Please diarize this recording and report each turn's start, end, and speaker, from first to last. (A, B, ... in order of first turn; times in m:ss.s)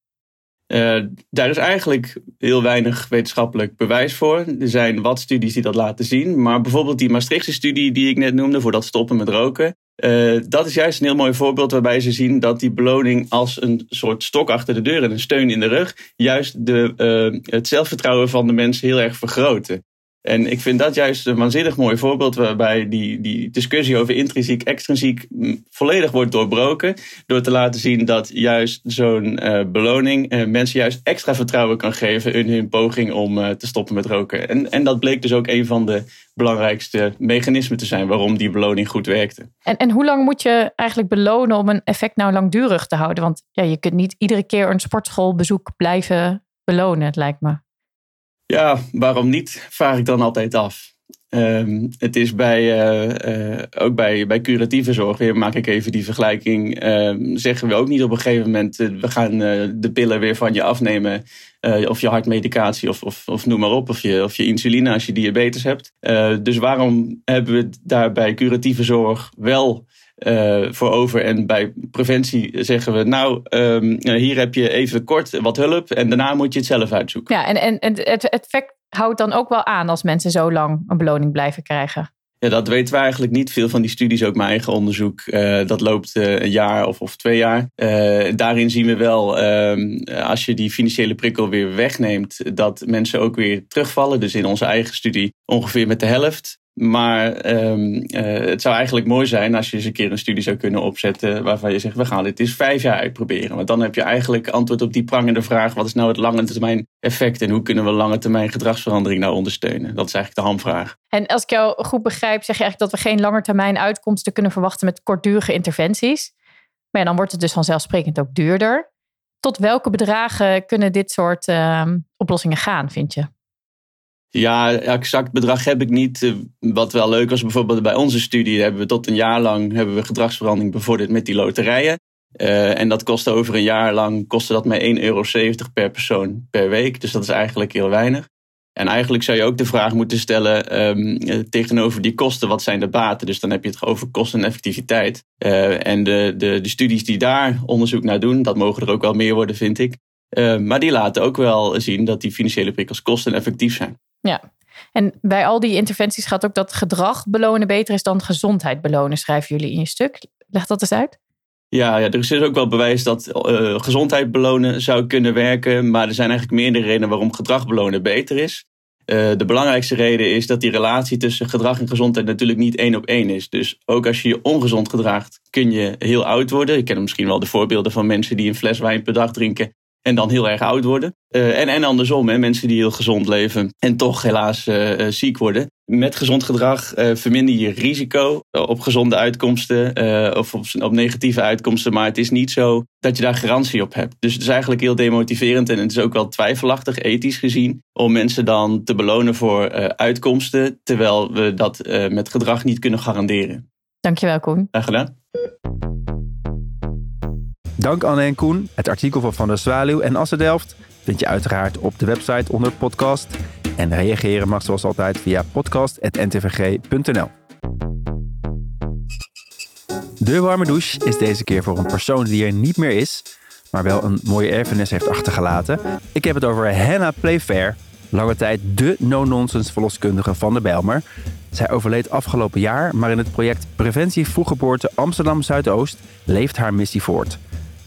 0:00.7-0:39.5 A
0:39.7-0:47.6 B
0:48.5-1:17.3 A
1:17.3-1:22.1 B
1:22.4-1:50.9 A
1:51.1-1:56.3 B
1:56.9-1:58.9 B
1:59.4-2:03.3 B
2:04.3-2:34.0 A
2:35.0-2:41.2 B
2:41.7-3:23.6 A
3:24.0-3:24.7 B
3:24.7-3:25.1 A
3:27.8-3:37.3 C
3:40.2-3:57.4 C